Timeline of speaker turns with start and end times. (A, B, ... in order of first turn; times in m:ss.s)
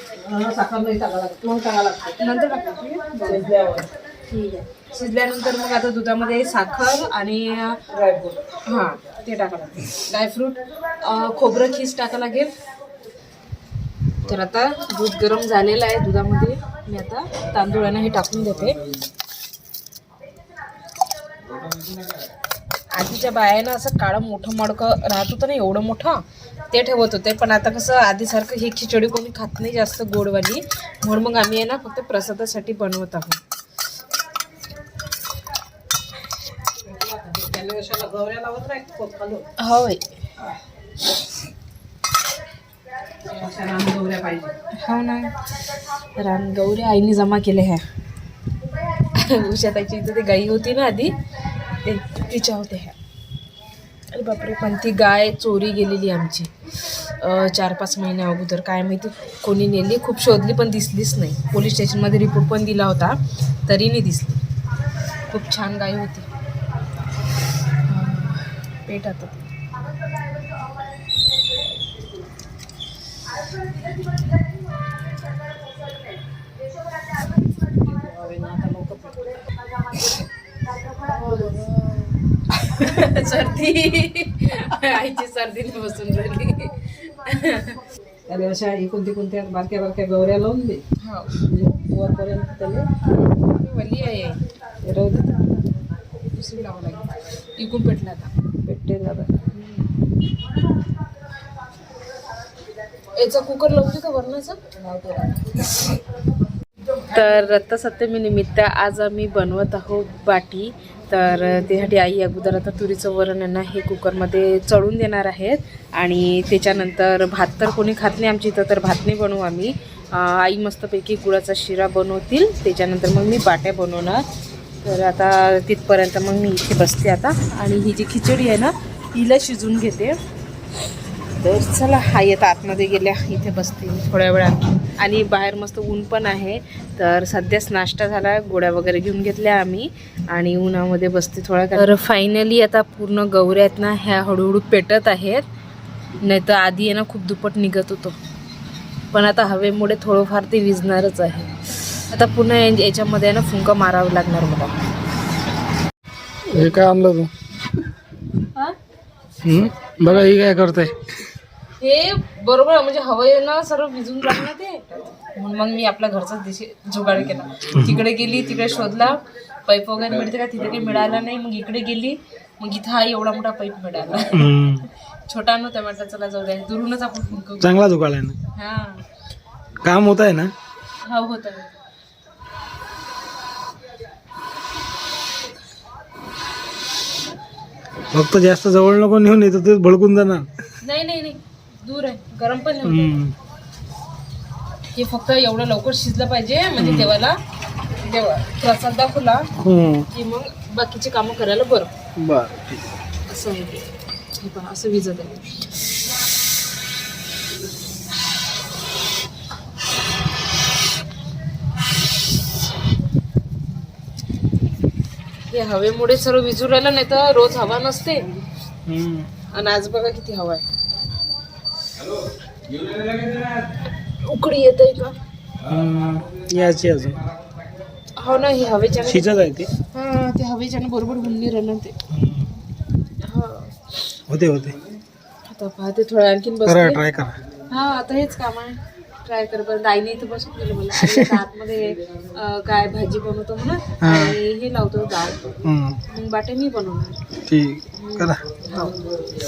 0:00.2-0:02.2 A
0:02.2-0:03.5 B
0:03.2-0:03.9 A
0:04.3-0:07.8 B
0:07.9-0:08.4 A
0:08.7-0:12.5 B
0:14.2-0:18.8 B
0:22.9-0:33.4 B
0:36.8-0:39.5 A
0:39.6-0:40.1 B
0:43.2-0:44.5 A
0:44.7-0:47.8 B
0:49.0-0:51.1 B
0:51.8-0:53.0 B
0:54.1-1:04.4 B
1:05.3-1:06.3 B
1:07.8-1:09.5 B
1:17.6-1:19.3 A
1:21.1-1:22.0 A
1:22.6-1:27.8 B
1:28.3-1:30.8 A
1:31.0-1:31.4 B
1:31.3-1:32.9 A
1:33.4-1:34.4 B
1:34.8-1:35.3 A
1:36.3-1:39.6 B
1:43.1-1:44.6 B
1:44.8-1:45.6 A
1:47.0-2:04.2 B
2:04.8-2:10.2 B
2:11.4-2:25.4 B
2:26.2-2:28.2 B
2:29.1-2:34.7 B
2:36.5-2:37.3 C
2:39.4-2:41.1 C
2:41.8-2:54.5 B
2:54.3-2:54.9 C
2:55.3-2:57.7 B
2:57.6-2:58.4 C
2:58.5-2:59.0 B
2:59.8-3:00.5 C
3:01.0-3:01.8 B
3:08.1-3:10.5 C
3:10.8-3:13.2 B
3:12.8-3:13.4 C
3:14.9-3:17.4 B
3:16.8-3:17.2 C
3:17.9-3:19.5 B
3:19.6-3:20.1 C
3:20.1-3:21.9 B
3:22.2-3:22.8 C
3:23.3-3:25.5 B
3:35.5-3:38.3 B
3:38.8-3:39.3 C
3:39.5-3:40.6 B
3:44.2-3:45.2 B
3:45.6-3:47.2 C
3:48.2-3:52.0 B
3:49.1-3:49.7 C
3:52.1-3:52.5 C
3:53.2-3:53.8 B
3:54.3-3:54.8 C
3:55.5-3:57.0 B
3:56.7-3:57.4 C
3:57.7-4:05.5 B
4:01.0-4:01.4 C
4:04.0-4:04.4 C
4:05.6-4:06.0 C
4:06.1-4:07.2 B
4:07.5-4:08.4 C
4:08.0-4:09.0 B